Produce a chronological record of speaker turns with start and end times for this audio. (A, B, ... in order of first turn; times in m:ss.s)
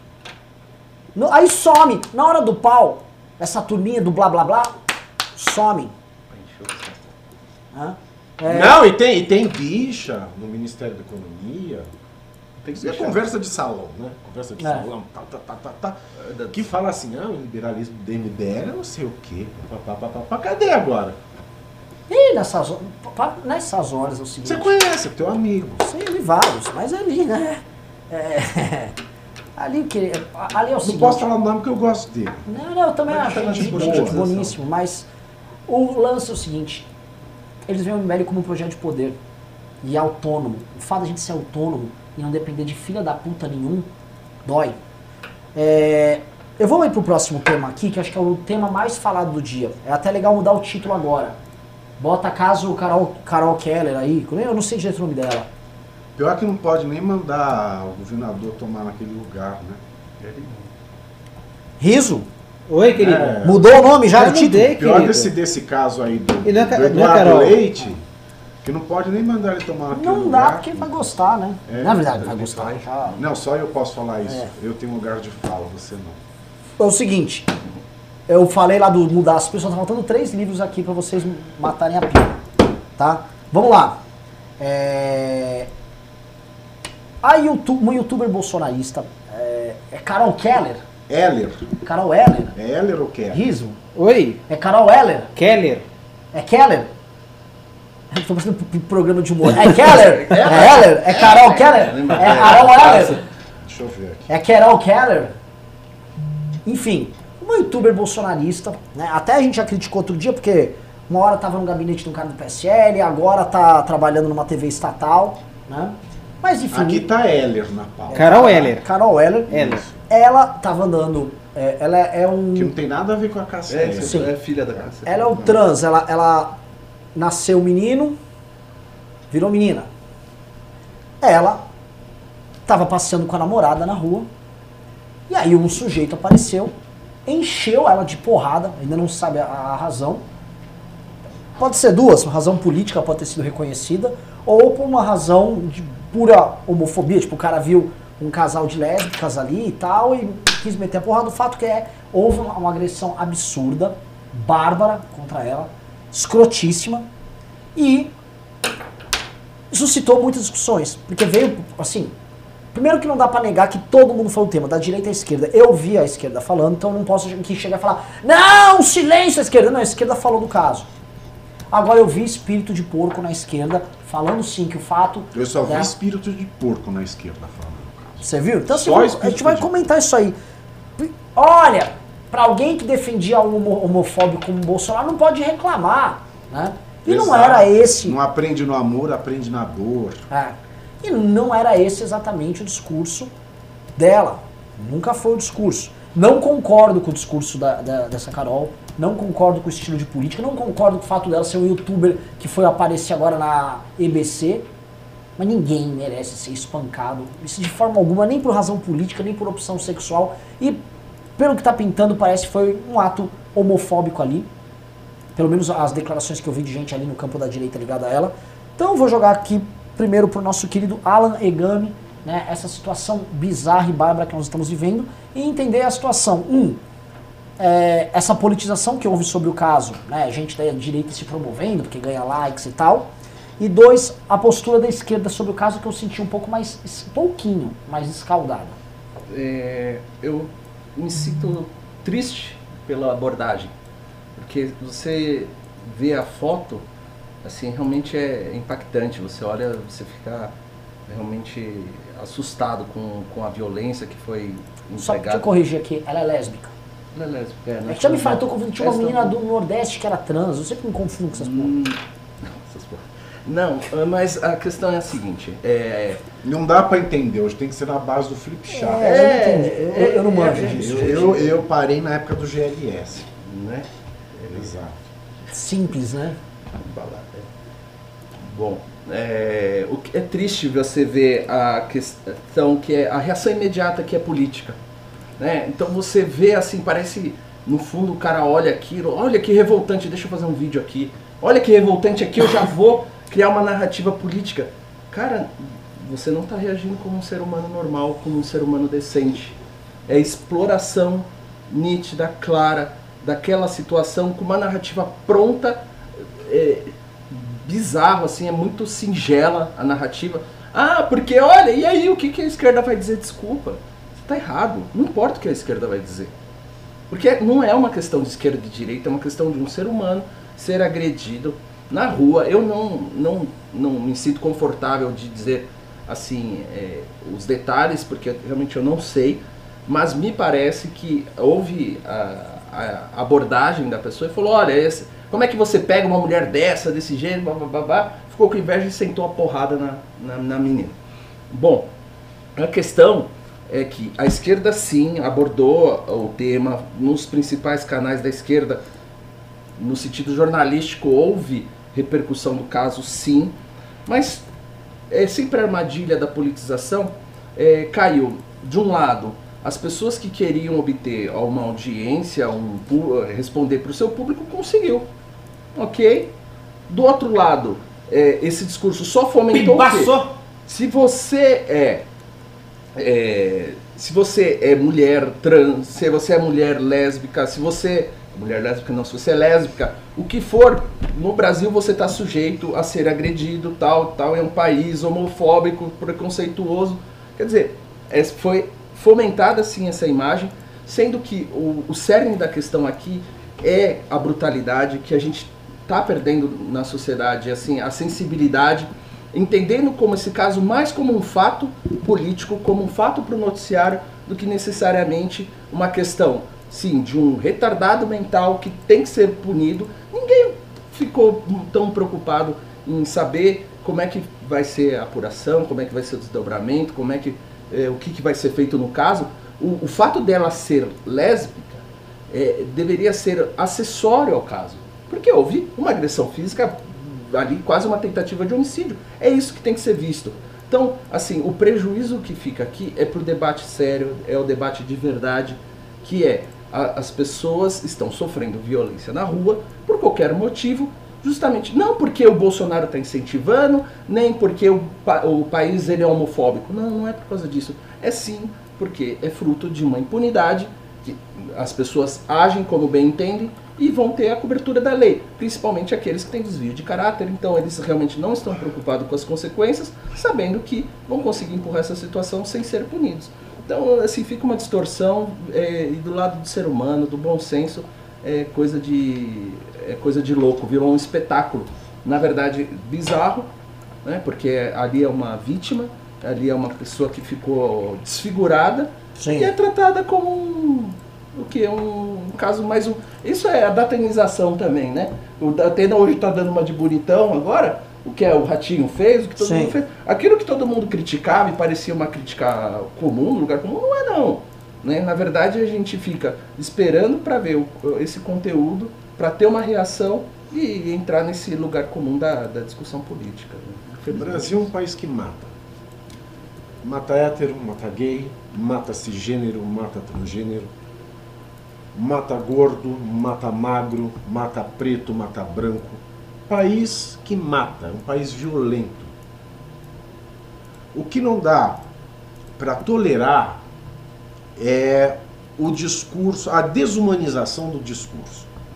0:01.2-0:04.8 A
0:05.4-0:05.9 A
0:06.3-0:07.1 B
0:07.7-0:08.8 A
0:08.5-0:11.9 C
0:12.6-0:13.2 B
0:12.8-0:16.0 C
0:14.6-0:14.9 A
0:16.2-0:16.6 B
0:16.5-0:21.2 C
0:22.1-0:24.7 A
0:24.4-0:25.8 C
0:25.8-0:29.0 A
0:29.6-0:31.2 A
0:30.8-0:32.5 C
0:32.5-0:35.1 A
0:33.1-0:34.3 C
0:33.1-0:34.6 B
0:35.7-0:36.9 A
0:37.7-0:39.2 A
0:39.8-0:43.9 A
0:44.4-0:44.8 A
0:45.5-0:51.4 A
0:52.0-0:55.5 A
0:56.2-0:59.8 C
1:00.2-1:00.7 B
1:01.8-1:02.3 A
1:02.7-1:03.4 D
1:03.0-1:08.0 C
1:03.4-1:04.7 A
1:04.1-1:05.3 D
1:06.4-1:07.6 D
1:08.6-1:11.1 C
1:09.9-1:13.2 A
1:11.7-1:12.2 C
1:12.0-1:13.2 B
1:13.2-1:16.2 C
1:16.8-1:17.5 A
1:18.3-1:22.4 A
1:23.0-1:24.0 A
1:24.6-1:25.7 A
1:27.2-1:30.9 A
1:31.1-1:31.7 C
1:31.8-1:32.6 A
1:32.6-1:33.4 C
1:33.3-1:33.8 A
1:34.0-1:34.4 D
1:34.5-1:35.3 A
1:35.4-1:35.8 D
1:36.3-1:36.9 A
1:38.1-1:43.2 A
1:39.7-1:43.2 B
1:40.3-1:40.8 C
1:42.2-1:42.8 C
1:43.6-1:44.3 C
1:44.3-1:45.3 A
1:46.6-1:57.1 A
1:56.7-1:58.8 C
1:58.1-2:02.7 A
1:58.1-1:58.8 D
1:59.5-2:00.0 C
2:02.6-2:04.3 C
2:03.7-2:05.5 B
2:04.0-2:04.3 A
2:05.1-2:06.6 A
2:07.2-2:08.2 A
2:09.3-2:09.9 A
2:11.2-2:11.6 A
2:12.7-2:14.3 A
2:15.3-2:16.7 A
2:17.3-2:20.2 A
2:21.6-2:37.1 A
2:37.8-2:38.1 A
2:39.7-2:42.1 A
2:42.7-2:50.9 A
2:51.7-2:55.9 A
2:55.3-2:59.8 C
2:58.2-3:00.4 A
3:01.0-3:08.2 A
3:07.1-3:10.3 C
3:10.3-3:13.3 A
3:14.0-3:24.7 A
3:25.4-3:30.8 A
3:31.4-3:34.5 A
3:35.4-3:46.8 A
3:47.6-3:58.8 A
3:59.3-4:03.7 B
4:04.4-4:06.8 B
4:07.4-4:10.5 B
4:11.1-4:15.5 B
4:15.0-4:16.7 A
4:17.1-4:19.4 B
4:17.9-4:21.7 A
4:21.3-4:26.2 B
4:26.4-4:29.2 C
4:28.7-4:31.5 A
4:28.9-4:31.6 B
4:30.6-4:33.3 C
4:33.3-4:34.7 B
4:34.5-4:35.0 C
4:35.5-4:36.4 A
4:36.8-4:37.5 B
4:38.4-4:44.8 B
4:45.4-5:16.3 B
5:17.1-5:41.0 B
5:41.5-5:41.9 B
5:42.6-5:48.8 B
5:49.8-5:53.6 B
5:54.1-5:54.5 B
5:55.1-6:05.1 B
6:05.8-6:06.3 B
6:06.9-6:10.1 B
6:09.5-6:10.3 D
6:10.7-6:12.1 B
6:13.0-7:53.5 B
7:54.0-8:24.6 B
7:59.2-7:59.5 A
8:09.4-8:09.8 A
8:24.1-8:25.5 C
8:26.8-8:30.7 C
8:31.9-8:39.1 C
8:40.9-8:41.8 C
8:42.6-8:43.6 C
8:44.6-8:48.5 C